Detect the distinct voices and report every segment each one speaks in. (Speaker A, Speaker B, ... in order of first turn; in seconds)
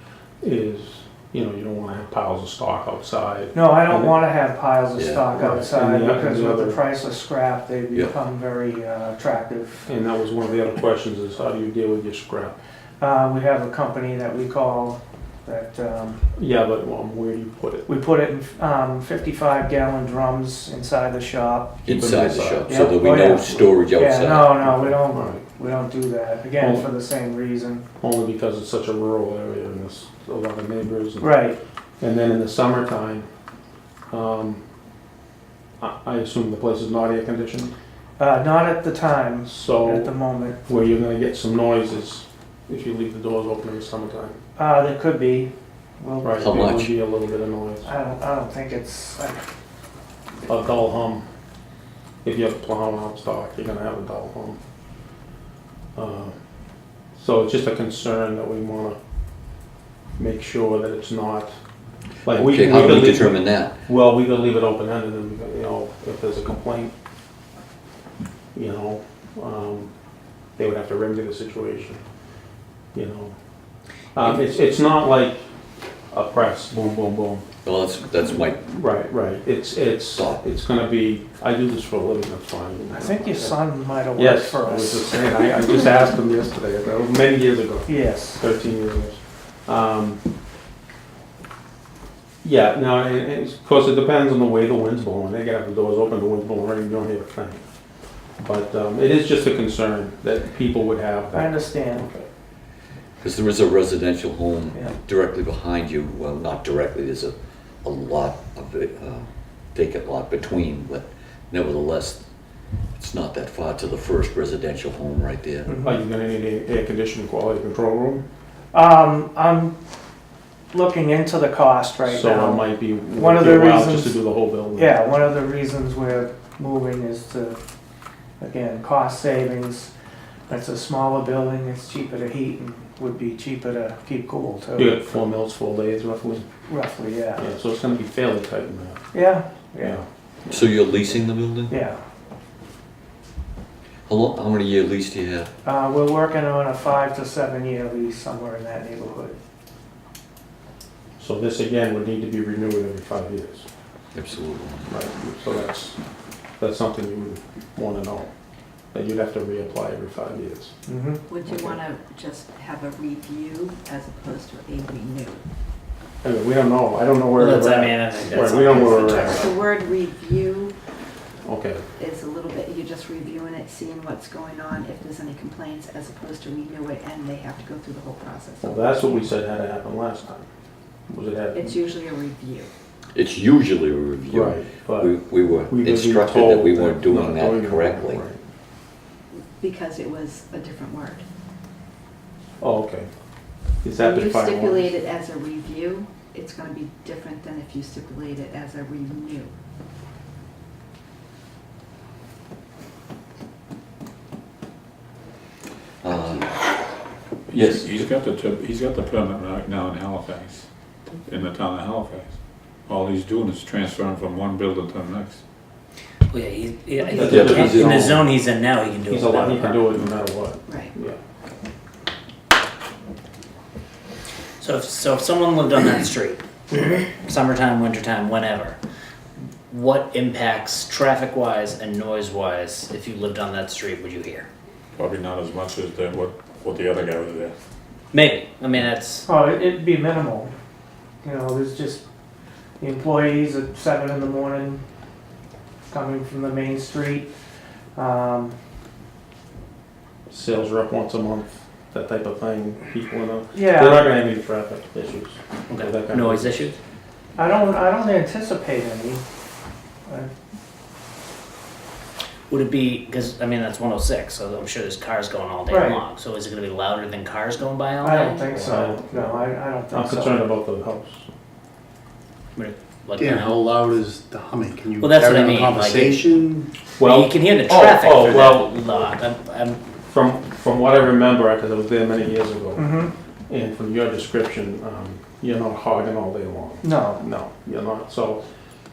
Speaker A: 0.4-4.2, 5.3-6.8, 9.9-12.6, 16.3-17.9, 21.9-22.8, 24.6-25.4, 26.6-26.9, 28.0-31.4, 32.0-33.3, 34.1-34.6, 35.8-37.7, 39.5-40.1, 40.7-44.4, 46.2-47.9, 50.5-51.3, 52.2-54.6, 55.9-56.4, 57.1-59.0, 60.2-61.6, 62.2-66.9, 68.5-69.9, 70.5-72.0, 72.9-73.3, 74.1-75.5, 76.1-77.5, 78.6-83.6, 84.1-90.2, 92.4-97.6, 98.4-102.3, 115.8-118.2, 122.0-125.0, 134.8-136.4, 137.3-139.1, 139.8-140.0, 151.2-153.7, 154.9-156.0, 156.6-158.3, 158.9-160.7, 161.4-161.8, 166.2-169.5, 171.4-171.8, 178.6-180.4, 181.1-181.8, 184.3-185.2, 185.7-188.4, 192.6-193.1, 193.8-194.9, 217.1-218.3, 219.0-221.2, 250.3-256.7, 268.4-271.2, 277.0-279.0, 280.1-282.9, 283.5-288.4
Speaker B: 3.5-9.9, 13.0-16.2, 17.9-21.8, 22.6-27.8, 31.2-31.6, 38.2-40.7, 44.5-46.8, 47.8-49.5, 82.9-85.1, 87.8-88.4, 101.3-102.1, 115.7-116.0, 118.7-119.8, 120.7-124.2, 124.7-127.6, 128.4-129.9, 130.5-135.0, 136.7-137.5, 139.1-140.0, 141.7-142.0, 145.6-149.4, 160.8-161.2, 239.2-240.5, 241.2-242.0, 242.8-244.8, 245.9-247.3, 247.9-248.6, 253.5-254.1, 257.4-259.2, 260.1-260.3, 265.7-266.0, 268.0-270.5, 282.7-283.1, 286.8-287.3
Speaker C: 5.0-5.2, 21.8-24.5, 46.4-46.9, 62.3-63.7, 77.6-78.6, 80.2-80.4, 103.2-112.2, 112.9-115.7, 140.5-141.7, 144.1-145.5, 154.1-154.9, 183.1-188.2, 206.0-206.6, 207.5-207.9, 217.2-218.0
Speaker D: 161.3-165.4, 168.6-170.7, 171.9-178.8, 181.5-182.7, 189.3-191.2, 194.0-199.5, 206.1-206.4, 220.7-220.9
Speaker E: 167.3-169.6, 216.3-219.8, 224.6-228.8, 229.7-234.5, 238.1-239.3, 255.7-256.8, 262.5-268.4, 272.5-273.6, 275.0-276.3, 277.0-279.8
Speaker F: 207.5-210.7, 211.2-215.4, 234.9-237.5
Speaker G: 273.1-276.7